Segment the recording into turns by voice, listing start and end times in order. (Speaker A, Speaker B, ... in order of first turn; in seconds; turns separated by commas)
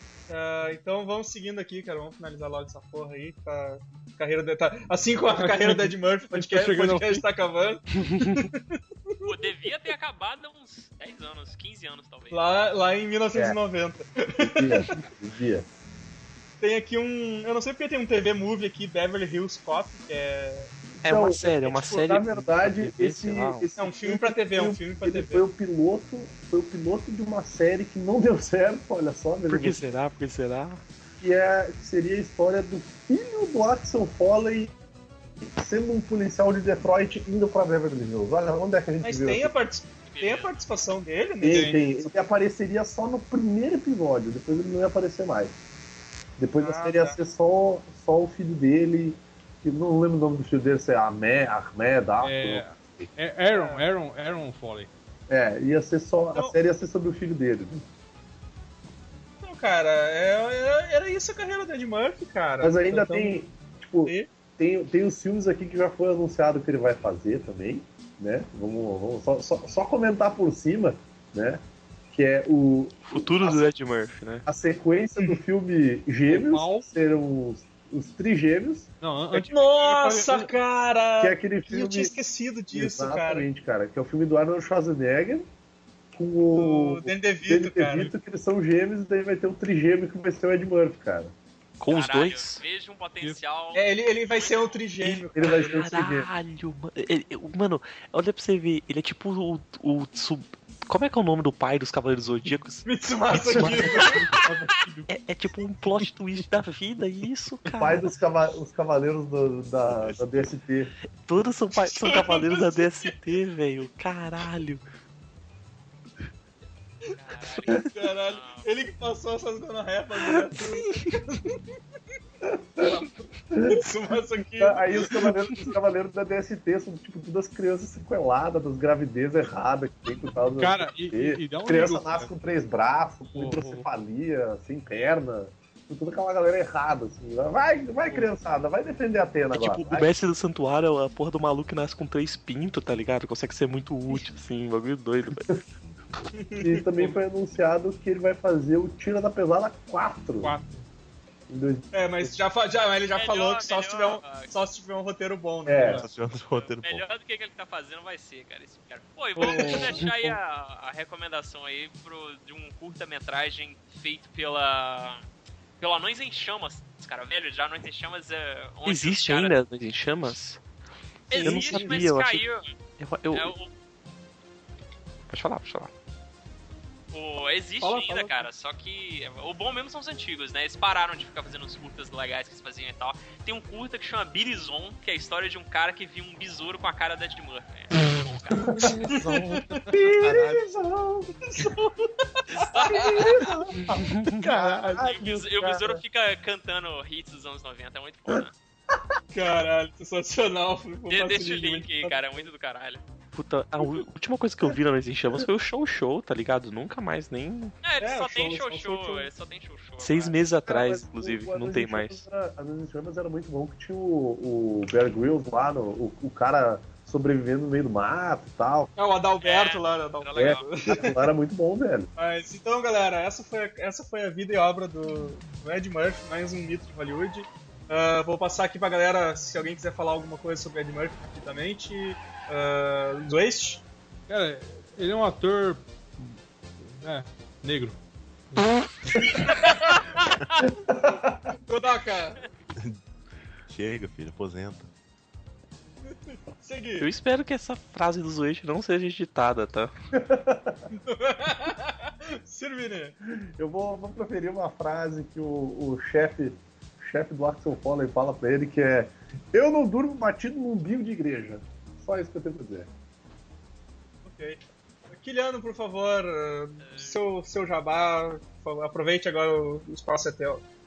Speaker A: 0.3-9.1, Speaker B: 5.3-7.2, Speaker C: 8.0-8.4, Speaker D: 9.2-12.4, Speaker A: 12.3-14.8, Speaker E: 13.3-13.6, Speaker E: 14.4-15.7, Speaker A: 16.6-20.7, Speaker C: 21.0-23.7, Speaker E: 21.0-29.8, Speaker A: 23.8-25.4, Speaker C: 29.5-30.8, Speaker E: 31.2-34.7, Speaker E: 35.4-39.5, Speaker A: 39.0-42.2, Speaker D: 40.1-40.7, Speaker E: 41.4-45.5, Speaker B: 41.5-41.8, Speaker E: 46.4-53.1, Speaker A: 46.6-47.2, Speaker B: 52.2-54.9, Speaker A: 53.5-53.8, Speaker E: 55.3-57.8, Speaker A: 59.4-63.4, Speaker E: 62.6-73.7, Speaker C: 73.0-74.5, Speaker E: 74.5-78.9, Speaker B: 76.3-76.9, Speaker B: 79.0-80.5, Speaker A: 79.3-83.5, Speaker E: 81.2-82.1, Speaker E: 82.7-85.5, Speaker E: 86.1-91.3, Speaker A: 86.5-88.1, Speaker C: 91.8-92.6, Speaker D: 91.8-94.9, Speaker A: 93.7-95.9, Speaker C: 95.0-102.9, Speaker E: 95.3-96.3, Speaker A: 102.8-104.2, Speaker C: 103.4-104.4, Speaker B: 103.5-105.1, Speaker C: 105.1-108.1, Speaker B: 105.8-106.1, Speaker E: 107.8-110.9, Speaker F: 110.0-110.3, Speaker C: 111.2-114.8, Speaker A: 111.9-113.1, Speaker D: 117.1-118.7, Speaker A: 117.7-121.6, Speaker C: 120.3-121.1, Speaker A: 122.8-123.1, Speaker E: 123.5-123.8, Speaker A: 123.6-125.3, Speaker E: 124.6-140.1, Speaker B: 130.6-132.3, Speaker B: 133.3-133.8, Speaker C: 139.5-145.6, Speaker A: 146.3-147.2, Speaker E: 146.6-150.6, Speaker B: 150.4-150.8, Speaker E: 151.5-152.3, Speaker A: 151.9-156.0, Speaker D: 153.1-154.5, Speaker E: 155.7-156.0, Speaker F: 155.8-157.0, Speaker D: 156.5-165.2, Speaker C: 159.4-160.4, Speaker D: 165.8-169.5, Speaker C: 168.8-170.6, Speaker A: 171.3-172.0, Speaker D: 171.3-172.7, Speaker C: 171.4-172.4, Speaker C: 173.0-173.5, Speaker D: 173.3-173.7, Speaker C: 175.3-175.9, Speaker D: 177.1-188.9, Speaker A: 177.8-178.5, Speaker E: 188.6-191.7, Speaker A: 188.8-189.1, Speaker A: 191.4-193.2, Speaker D: 192.5-193.5, Speaker E: 192.7-196.0, Speaker C: 193.8-194.4, Speaker D: 194.8-198.5, Speaker E: 198.3-199.0, Speaker A: 199.3-202.5, Speaker D: 201.1-203.0, Speaker C: 203.3-207.7, Speaker D: 207.8-210.4, Speaker A: 208.0-209.3, Speaker C: 210.0-212.2, Speaker E: 210.6-218.9, Speaker A: 218.9-221.1, Speaker D: 219.4-220.9, Speaker E: 220.3-222.1, Speaker A: 222.2-233.8, Speaker B: 234.3-238.0, Speaker B: 238.5-239.3, Speaker A: 239.4-240.0, Speaker E: 240.6-241.5, Speaker A: 241.7-242.4, Speaker F: 243.7-244.9, Speaker A: 246.0-247.1, Speaker C: 247.0-249.9, Speaker E: 250.2-250.8, Speaker A: 250.9-253.2, Speaker E: 253.4-262.9, Speaker A: 264.2-270.6, Speaker D: 266.8-267.2